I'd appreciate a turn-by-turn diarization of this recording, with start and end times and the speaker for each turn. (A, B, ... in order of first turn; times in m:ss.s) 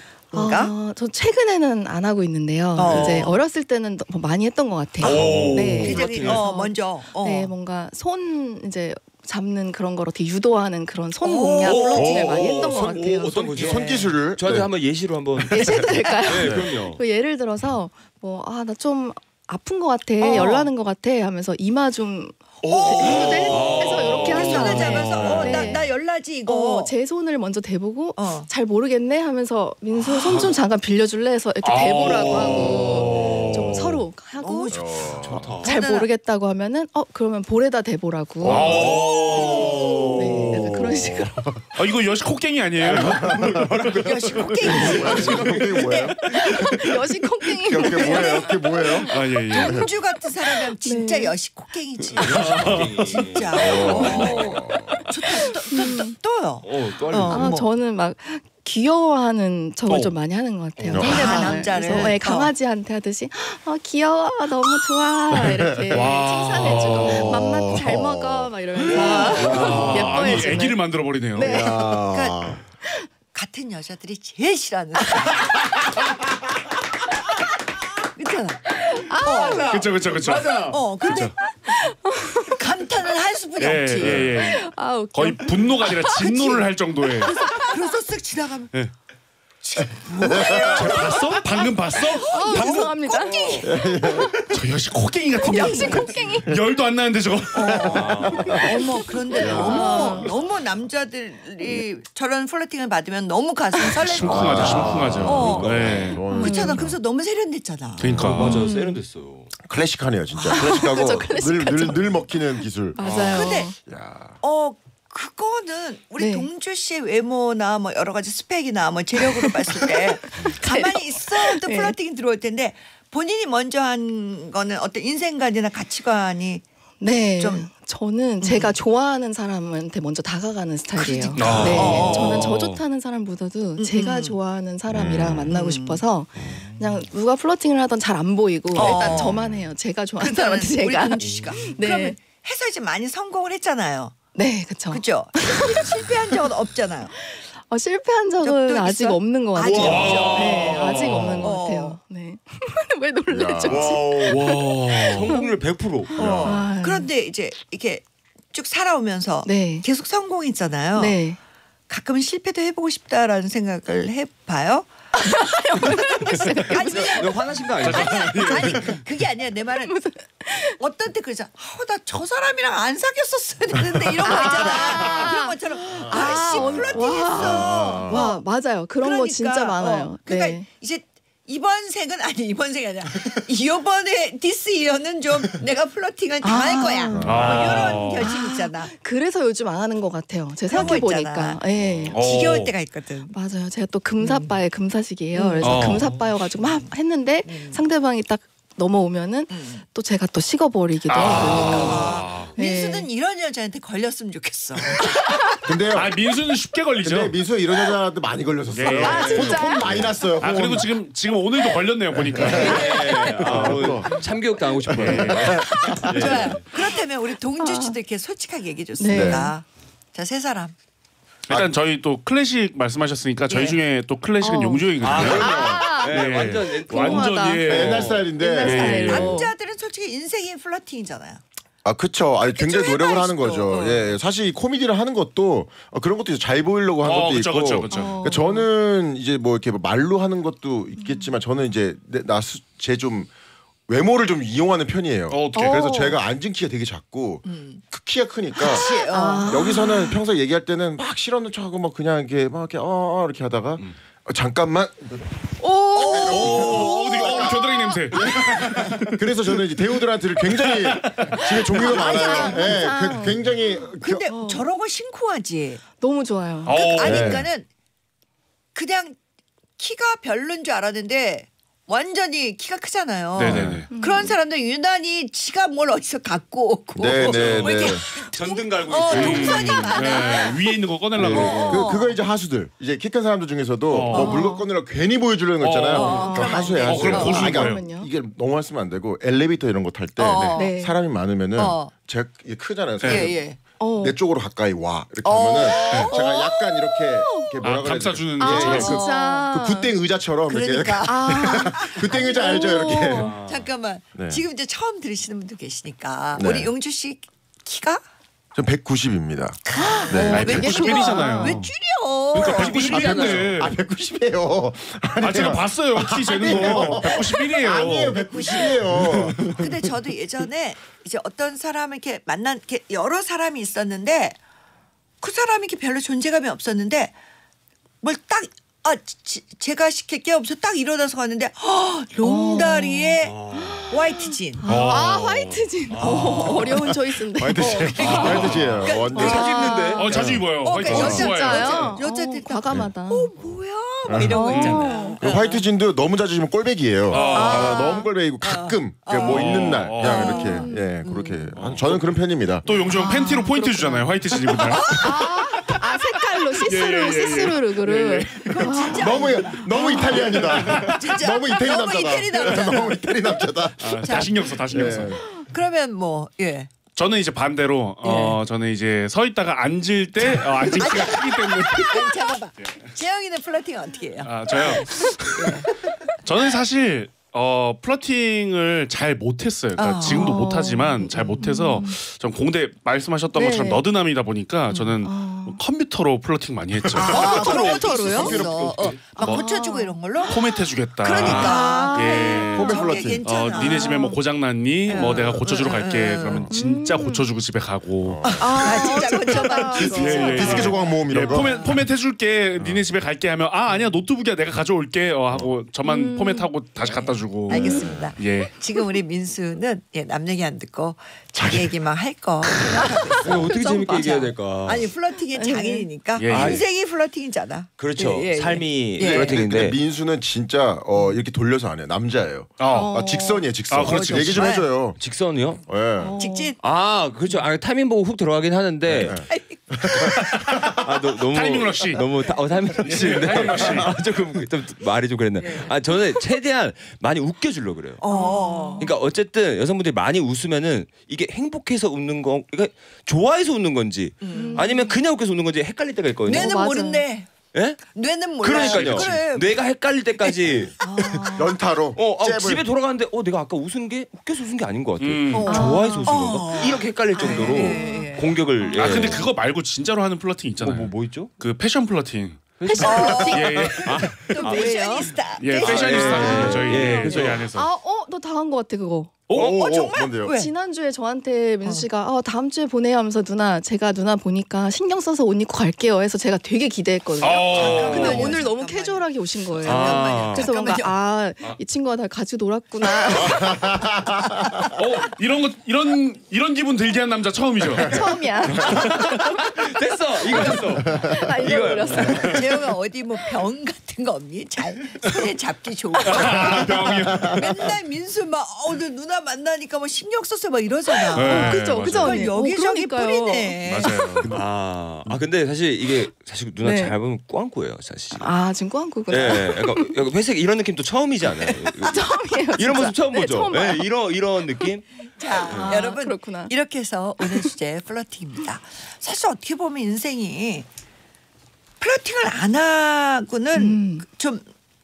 0:00.3-0:00.8 A
0:00.3-0:13.7 B
0:02.8-0:03.4 A
0:02.8-0:03.3 C
0:05.0-0:05.3 A
0:05.0-0:06.0 D
0:05.0-0:05.9 C
0:05.3-0:06.5 E
0:05.8-0:07.5 A
0:11.2-0:12.1 A
0:11.6-0:17.0 E
0:11.9-0:14.7 C
0:13.6-0:13.9 A
0:15.5-0:25.9 B
0:16.3-0:16.7 C
0:20.2-0:20.7 A
0:22.6-0:23.7 C
0:22.6-0:26.9 A
0:23.2-0:25.8 D
0:23.5-0:24.0 E
0:26.5-0:34.9 B
0:28.2-0:28.5 A
0:30.0-0:30.6 E
0:31.6-0:34.0 D
0:34.4-0:34.8 A
0:34.7-0:35.5 C
0:35.1-0:35.6 E
0:35.6-0:36.1 A
0:35.6-0:38.7 B
0:38.4-0:41.6 C
0:38.4-0:40.6 D
0:38.5-0:40.1 E
0:39.5-0:40.1 A
0:40.1-0:41.4 B
0:41.8-0:43.4 D
0:42.8-0:45.8 E
0:42.9-0:43.7 C
0:43.9-0:46.7 A
0:44.6-0:46.9 C
0:44.7-0:45.3 D
0:46.3-0:49.1 B
0:47.6-0:49.9 C
0:47.8-0:57.6 A
0:49.1-0:49.9 D
0:50.8-0:51.4 B
0:52.2-0:54.5 E
0:52.2-0:53.2 D
0:53.5-0:55.1 C
0:54.0-0:54.3 D
0:55.7-0:56.1 B
0:56.6-0:57.6 E
0:57.3-1:10.8 B
0:59.9-1:00.1 D
1:00.8-1:02.1 E
1:00.9-1:01.6 C
1:01.0-1:02.5 A
1:05.3-1:10.6 C
1:05.9-1:07.5 D
1:08.9-1:09.8 A
1:09.1-1:11.5 D
1:11.4-1:12.6 C
1:11.4-1:11.7 B
1:11.4-1:12.6 A
1:13.3-1:16.0 A
1:18.1-1:18.6 A
1:18.9-1:19.7 B
1:19.2-1:20.1 A
1:19.6-1:21.3 D
1:20.2-1:20.8 E
1:20.7-1:21.8 A
1:21.7-1:22.6 B
1:22.5-1:24.3 A
1:23.6-1:27.4 D
1:24.0-1:24.3 C
1:24.4-1:26.6 B
1:26.2-1:26.7 A
1:27.2-1:28.7 A
1:27.4-1:27.8 B
1:29.6-1:33.8 A
1:29.8-1:31.2 C
1:30.7-1:32.7 D
1:32.2-1:33.6 B
1:33.2-1:33.7 E
1:33.6-1:34.6 C
1:34.5-1:38.5 D
1:35.4-1:36.5 B
1:35.5-1:36.1 A
1:37.5-1:48.7 A
1:37.7-1:38.6 C
1:37.9-1:38.7 E
1:39.3-1:40.3 B
1:39.4-1:40.3 C
1:43.7-1:44.0 B
1:44.0-1:46.2 D
1:44.2-1:47.0 C
1:45.1-1:46.2 E
1:46.3-1:46.8 B
1:48.0-1:48.6 D
1:48.2-1:48.6 C
1:48.2-1:49.5 E
1:48.6-1:49.0 B
1:49.6-1:54.4 C
1:50.4-1:51.0 A
1:50.5-1:53.8 B
1:53.0-1:53.7 A
1:54.4-2:06.6 A
1:56.2-1:56.5 B
1:59.2-2:02.0 B
2:07.0-2:22.2 B
2:07.4-2:07.7 A
2:08.4-2:08.8 A
2:11.0-2:12.6 A
2:11.4-2:12.4 D
2:11.4-2:12.8 E
2:11.5-2:11.9 C
2:13.8-2:14.4 A
2:14.9-2:15.5 C
2:15.5-2:16.0 A
2:18.8-2:19.5 A
2:19.1-2:19.7 C
2:20.2-2:24.2 A
2:21.2-2:21.6 E
2:24.4-2:25.8 B
2:24.9-2:27.1 A
2:27.2-2:35.5 B
2:28.4-2:32.0 A
2:29.6-2:31.2 E
2:29.8-2:31.6 D
2:33.3-2:34.1 C
2:33.7-2:36.2 E
2:34.3-2:35.4 D
2:36.1-2:41.2 A
2:36.2-2:36.6 C
2:36.4-2:37.1 B
2:39.4-2:39.9 B
2:41.0-2:41.4 B
2:41.9-2:44.9 A
2:45.2-2:47.3 B
2:45.7-2:50.1 A
2:46.8-2:48.6 E
2:47.8-2:49.0 D
2:49.9-2:50.8 B
2:50.8-2:58.4 A
2:54.2-2:55.4 C
2:54.2-3:00.6 B
2:55.9-2:58.2 C
2:59.0-3:08.9 A
3:06.4-3:07.4 B
3:07.2-3:07.9 C
3:07.2-3:08.3 D
3:08.2-3:12.2 B
3:10.7-3:11.6 A
3:12.1-3:12.7 D
3:12.1-3:13.3 A
3:13.3-3:23.1 B
3:14.2-3:14.5 A
3:15.3-3:16.0 A
3:15.6-3:16.1 D
3:17.4-3:17.8 A
3:19.5-3:19.8 A
3:21.1-3:22.5 D
3:21.3-3:25.4 A
3:25.6-3:26.2 C
3:25.9-3:27.4 D
3:27.0-3:30.9 C
3:28.7-3:29.5 D
3:29.0-3:30.1 E
3:29.1-3:29.9 B
3:30.4-3:32.9 D
3:32.2-3:32.8 C
3:32.5-3:36.7 E
3:32.5-3:33.7 A
3:33.4-3:34.1 C
3:34.9-3:36.5 C
3:34.9-3:35.6 D
3:35.8-3:40.7 A
3:37.6-3:38.0 B
3:39.0-3:39.5 B
3:39.1-3:39.5 C
3:41.5-3:49.5 D
3:43.5-3:43.8 A
3:44.4-3:46.2 B
3:45.0-3:47.6 E
3:45.1-3:45.6 C
3:46.9-3:49.5 B
3:47.7-3:49.3 C
3:48.6-3:51.4 A
3:51.8-4:03.3 C
3:52.5-3:54.2 A
3:57.0-3:58.1 D
3:57.9-3:58.7 B
4:01.0-4:01.4 B
4:03.9-4:08.9 C
4:05.3-4:05.9 D
4:05.6-4:06.2 B
4:07.5-4:07.8 A
4:08.6-4:09.7 A
4:08.6-4:10.2 B
4:09.4-4:15.2 C
4:15.6-4:18.0 B
4:16.0-4:17.6 A
4:16.0-4:17.5 C
4:16.3-4:19.2 D
4:18.1-4:24.2 C
4:20.5-4:22.0 D
4:21.8-4:23.4 B
4:22.2-4:22.6 A
4:24.0-4:25.8 A
4:24.3-4:24.7 B
4:26.0-4:26.8 B
4:26.7-4:27.4 D
4:26.7-4:27.7 A
4:27.0-4:27.5 C
4:28.7-4:29.2 A
4:29.8-4:42.2 A
4:33.4-4:33.9 D
4:33.4-4:33.8 C
4:33.9-4:34.4 B
4:37.0-4:38.0 C
4:37.2-4:40.1 E
4:39.1-4:41.8 D
4:41.2-4:53.4 C
4:41.4-4:41.8 E
4:43.9-4:44.4 D
4:44.1-4:44.7 B
4:45.6-4:47.8 D
4:45.9-4:47.6 A
4:46.1-4:48.1 B
4:50.2-4:50.7 A
4:50.6-4:51.0 B
4:51.6-4:51.9 A
4:53.0-4:53.3 D
4:53.0-4:53.6 A
4:53.8-4:54.2 B
4:54.0-5:03.3 C
4:55.2-4:56.7 A
4:57.0-4:57.6 B
4:57.6-4:59.0 D
4:58.4-4:59.9 B
4:58.4-4:59.5 A
5:00.5-5:08.0 A
5:01.0-5:03.3 B
5:03.2-5:03.7 E
5:04.2-5:04.4 C
5:06.3-5:06.7 C
5:08.6-5:10.7 C
5:09.7-5:13.2 A
5:09.8-5:11.6 B
5:10.3-5:11.7 D
5:12.3-5:13.8 D
5:12.4-5:13.6 E
5:12.8-5:20.0 C
5:15.2-5:18.2 D
5:17.8-5:18.8 A
5:18.9-5:19.4 D
5:19.6-5:24.4 A
5:25.2-5:27.1 A
5:28.0-5:33.4 A
5:32.2-5:38.3 B
5:33.2-5:34.0 E
5:33.9-5:34.7 A
5:34.7-5:35.6 D
5:35.9-5:36.6 E
5:36.0-5:36.7 A
5:36.5-5:39.6 C
5:37.6-5:40.1 A
5:38.0-5:38.9 D
5:39.1-5:40.1 B
5:39.1-5:40.2 E
5:40.0-5:42.0 D
5:40.1-5:41.3 C
5:40.6-5:45.6 A
5:40.9-5:43.3 B
5:44.1-5:44.5 C
5:44.3-5:45.2 B
5:44.5-5:44.9 D
5:45.2-5:52.7 C
5:47.1-5:47.7 D
5:47.1-5:51.5 A
5:47.3-5:48.1 B
5:49.2-5:50.4 D
5:50.0-5:51.0 B
5:51.6-5:52.1 D
5:52.6-5:55.2 D
5:52.8-5:54.1 B
5:53.0-5:53.5 A
5:54.6-5:55.8 A
5:54.9-6:00.3 B
5:56.6-5:58.9 D
5:58.4-6:03.0 A
5:58.9-6:05.2 C
6:00.2-6:01.0 D
6:03.8-6:05.2 D
6:04.0-6:06.7 A
6:07.0-6:12.1 D
6:08.0-6:08.4 A
6:10.3-6:15.8 A
6:14.2-6:15.6 D
6:16.2-6:27.7 D
6:19.8-6:20.4 A
6:20.0-6:22.0 B
6:23.4-6:23.8 B
6:24.7-6:25.6 B
6:27.0-6:28.4 B
6:27.0-6:29.0 C
6:27.0-6:29.0 E
6:27.1-6:34.0 A
6:29.2-6:30.0 B
6:29.2-6:29.4 D
6:30.3-6:48.6 D
6:31.2-6:33.0 B
6:32.5-6:33.3 C
6:33.6-6:34.2 B
6:34.9-6:36.5 A
6:35.0-6:35.3 C
6:36.5-6:37.3 B
6:38.0-6:38.8 C
6:38.2-6:41.8 A
6:38.4-6:40.8 B
6:39.9-6:41.8 C
6:42.6-6:42.8 C
6:45.8-6:46.5 B
6:46.9-6:59.4 A
6:47.5-6:47.9 B
6:47.6-6:48.2 C
6:51.3-6:51.8 C
6:52.4-6:53.0 C
6:53.2-6:54.9 E
6:55.4-6:55.9 B
6:56.2-6:56.6 D
6:56.3-6:56.7 E
6:57.8-6:59.8 E
6:59.0-7:06.2 C
7:02.6-7:02.9 D
7:02.7-7:03.5 B
7:03.7-7:04.6 D
7:03.8-7:04.7 A
7:05.0-7:05.6 E
7:06.0-7:06.6 B
7:06.2-7:06.6 A
7:06.6-7:09.3 E
7:08.9-7:10.9 C
7:09.3-7:10.3 A
7:10.3-7:10.8 D
7:10.8-7:26.6 E
7:11.3-7:12.1 D
7:12.8-7:13.9 D
7:13.3-7:13.9 C
7:15.4-7:16.0 A
7:18.0-7:18.9 A
7:18.1-7:18.9 B
7:24.2-7:24.8 A
7:24.3-7:25.0 B
7:26.2-7:29.6 A
7:26.3-7:27.0 B
7:27.5-7:27.8 E
7:28.4-7:30.8 E
7:28.5-7:29.2 D
7:30.2-7:31.6 A
7:31.3-7:32.6 C
7:32.0-7:39.3 E
7:35.0-7:35.5 D
7:35.3-7:39.2 A
7:35.5-7:36.4 B
7:37.2-7:39.2 B
7:38.7-7:42.5 D
7:40.6-7:41.3 E
7:42.6-7:45.0 E
7:42.6-7:43.8 B
7:42.8-7:47.0 A
7:42.9-7:43.6 C
7:43.3-7:44.2 D
7:44.3-7:45.1 B
7:45.4-7:47.7 D
7:45.6-7:47.5 E
7:46.2-7:49.2 B
7:49.3-7:49.6 D
7:49.3-7:50.4 C
7:49.4-7:50.5 A
7:50.2-8:03.6 B
7:57.2-7:58.4 D
7:57.3-8:01.0 A
7:57.5-7:58.4 E
7:59.6-8:00.5 E
8:03.1-8:04.8 C
8:04.7-8:07.9 D
8:07.7-8:08.0 C
8:07.8-8:08.8 B
8:08.6-8:12.4 E
8:08.7-8:09.1 D
8:10.3-8:10.7 A
8:10.5-8:12.4 B
8:10.8-8:11.3 C
8:12.1-8:16.7 A
8:16.0-8:17.4 D
8:16.2-8:17.4 C
8:17.3-8:24.3 A
8:21.1-8:24.2 B
8:21.1-8:22.3 D
8:23.6-8:24.4 D
8:24.3-8:28.3 E
8:26.6-8:27.0 B
8:28.2-8:30.0 B
8:29.1-8:32.0 E
8:31.8-8:33.9 B
8:32.5-8:34.9 E
8:35.2-8:40.7 A
8:35.4-8:35.8 E
8:35.4-8:36.5 B
8:37.2-8:37.5 B
8:41.8-8:44.4 A
8:43.6-8:44.1 B